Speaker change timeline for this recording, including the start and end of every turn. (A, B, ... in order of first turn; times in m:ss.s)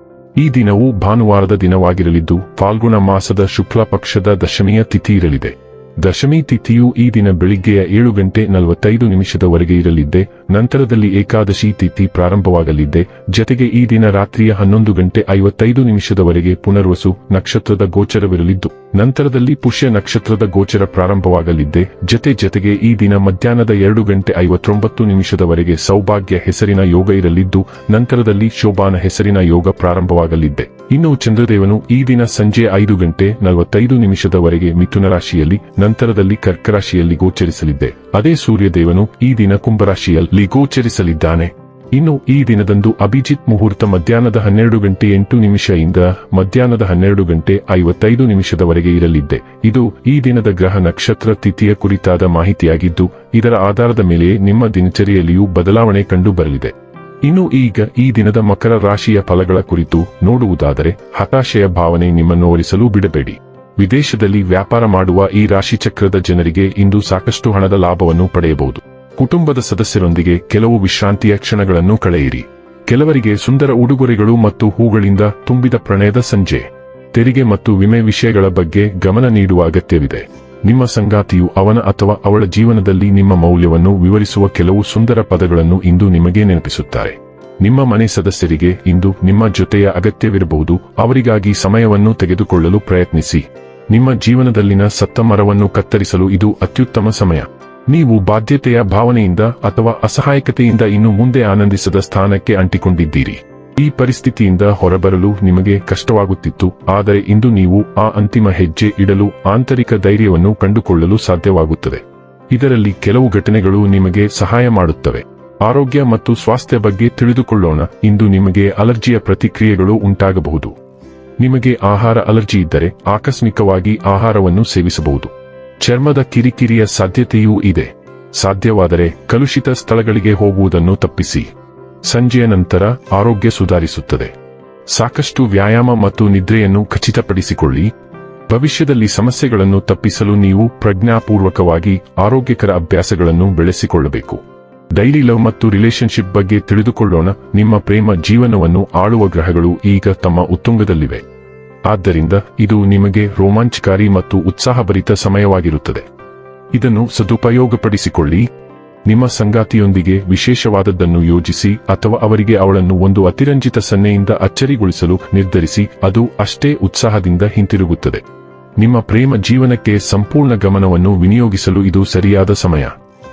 0:00.4-2:00.7 A
2:01.4-2:11.5 A
2:12.0-2:14.3 A
2:14.9-2:17.9 A
2:18.5-2:31.2 A
2:31.9-2:36.0 A
2:36.7-2:38.5 A
2:39.0-2:48.2 A
2:48.8-2:52.9 A